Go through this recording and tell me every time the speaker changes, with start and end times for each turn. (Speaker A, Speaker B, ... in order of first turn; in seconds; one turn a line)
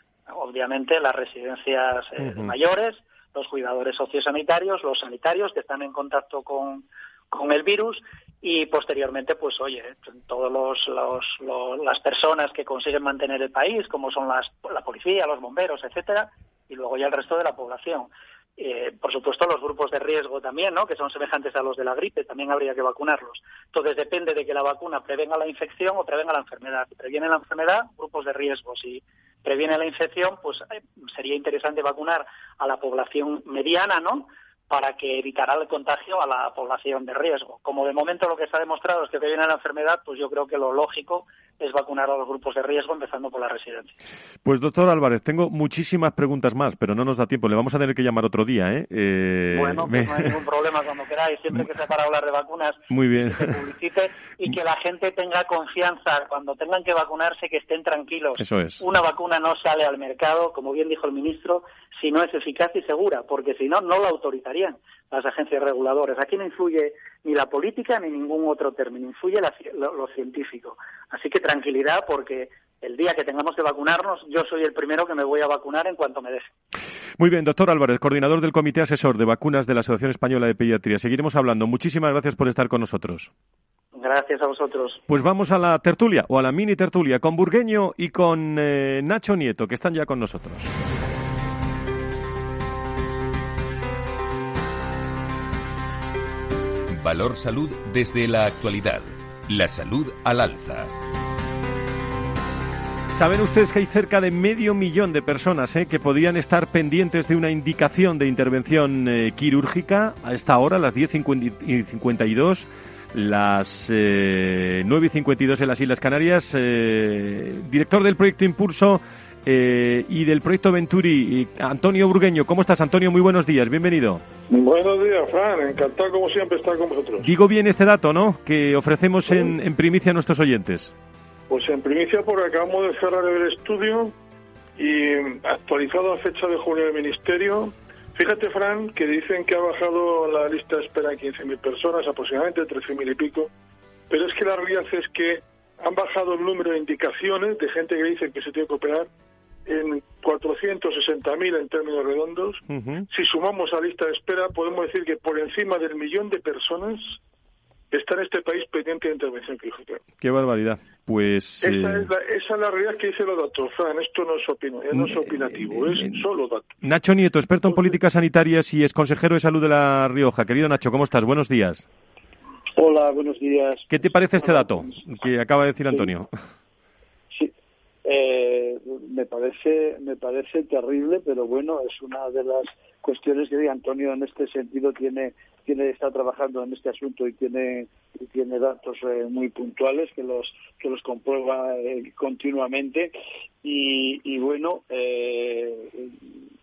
Speaker A: 0.3-43.9
Speaker B: 2.2-2.5
Speaker B: 44.4-50.4
Speaker A: 49.5-76.5
Speaker B: 52.9-53.5
Speaker B: 58.4-58.8
Speaker B: 77.2-83.3
Speaker A: 83.9-85.0
Speaker B: 85.1-90.7
Speaker C: 96.9-100.9
Speaker B: 103.1-124.2
Speaker D: 124.5-127.3
Speaker B: 127.2-130.9
Speaker D: 131.5-134.1
Speaker D: 134.8-143.5
Speaker D: 144.1-149.1
Speaker D: 149.7-157.2
Speaker B: 152.7-153.1
Speaker D: 157.9-160.0
Speaker B: 160.2-162.1
Speaker D: 161.6-166.7
Speaker B: 164.9-166.2
Speaker B: 166.8-171.9
Speaker E: 172.8-175.1
Speaker B: 173.9-176.3
Speaker E: 178.0-196.4